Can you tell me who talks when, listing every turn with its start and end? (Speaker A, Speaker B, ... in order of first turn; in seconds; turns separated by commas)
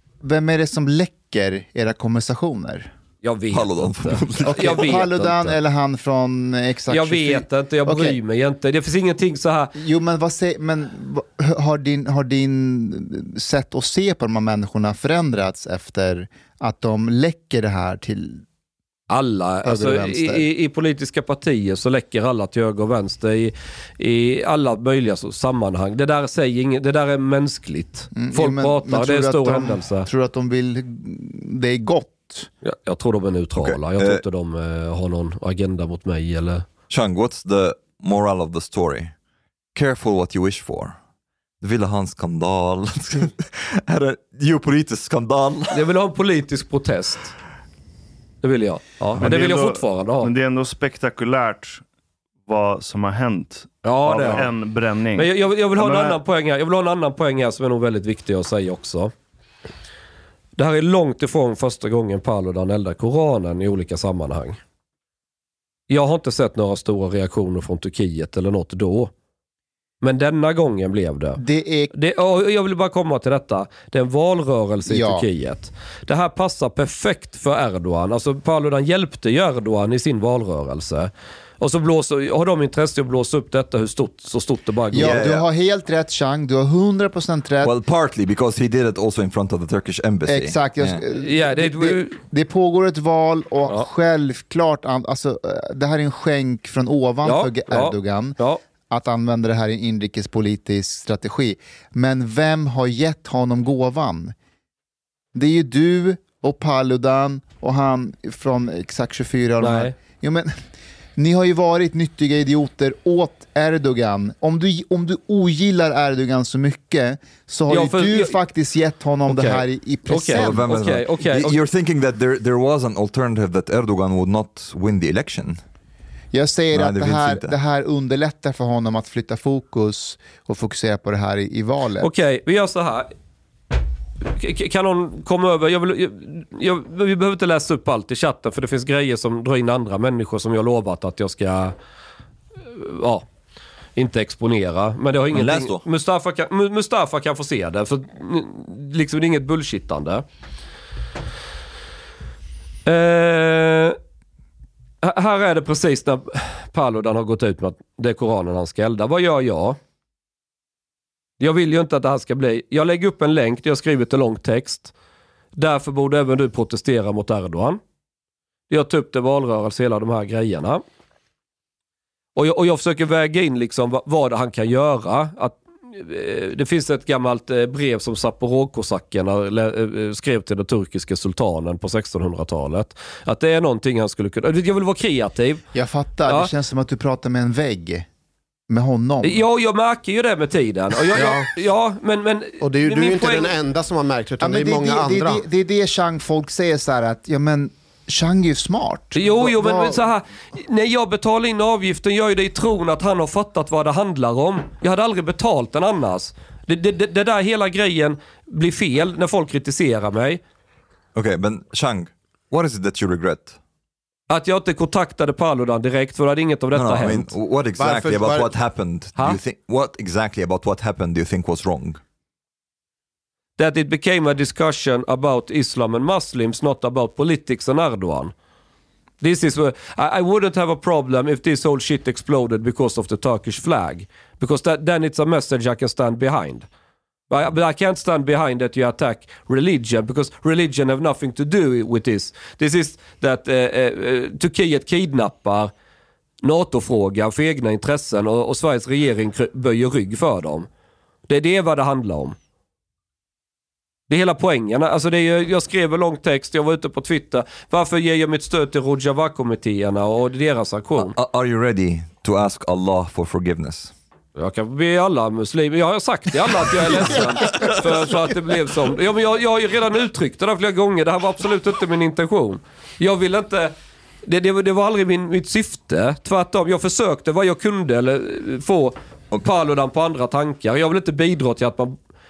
Speaker A: 0.2-2.9, Speaker B: 3.2-5.6, Speaker C: 3.5-5.0, Speaker A: 4.4-8.2, Speaker B: 6.9-9.7, Speaker A: 9.8-18.4, Speaker B: 19.1-30.1, Speaker A: 19.6-20.4, Speaker A: 28.2-32.5, Speaker B: 32.6-36.6, Speaker C: 33.6-34.2, Speaker C: 36.9-39.1, Speaker C: 39.8-41.0, Speaker C: 41.6-45.8, Speaker B: 45.7-47.3, Speaker B: 48.4-50.3, Speaker D: 49.2-51.8, Speaker D: 52.5-56.2, Speaker B: 53.8-54.5, Speaker B: 55.1-59.1, Speaker B: 60.6-64.6, Speaker B: 65.9-69.1, Speaker B: 70.0-71.4, Speaker A: 71.4-71.9, Speaker B: 71.9-85.2, Speaker A: 74.9-75.3, Speaker A: 84.9-87.7, Speaker C: 85.0-85.4, Speaker C: 87.6-91.0, Speaker A: 90.3-98.4, Speaker B: 91.1-92.2, Speaker B: 97.2-98.6, Speaker A: 98.9-104.3, Speaker A: 105.3-110.5, Speaker B: 109.6-109.9, Speaker A: 111.2-120.7, Speaker B: 117.7-118.4, Speaker B: 119.3-121.5, Speaker C: 120.4-125.6, Speaker A: 126.3-132.1, Speaker C: 126.7-127.5, Speaker B: 132.0-133.1, Speaker B: 134.3-141.8, Speaker B: 142.7-143.3, Speaker B: 144.0-150.2, Speaker C: 145.3-145.8, Speaker B: 152.9-154.0, Speaker B: 155.0-159.8, Speaker B: 161.4-164.9, Speaker B: 165.6-167.8, Speaker B: 168.7-170.8, Speaker B: 172.4-185.6, Speaker A: 185.7-188.1, Speaker A: 188.7-189.4, Speaker B: 189.2-193.5, Speaker E: 191.1-191.5, Speaker E: 192.6-195.4, Speaker A: 194.4-200.0, Speaker B: 199.2-210.4, Speaker C: 211.2-213.6, Speaker B: 214.3-217.3, Speaker C: 216.7-222.0, Speaker E: 217.8-218.5, Speaker B: 223.6-228.3, Speaker B: 229.2-236.7, Speaker B: 237.3-245.7, Speaker B: 246.4-250.7, Speaker B: 251.3-252.4, Speaker B: 254.1-261.1, Speaker C: 261.0-263.9, Speaker B: 264.4-273.7, Speaker A: 267.0-267.8, Speaker B: 274.3-282.0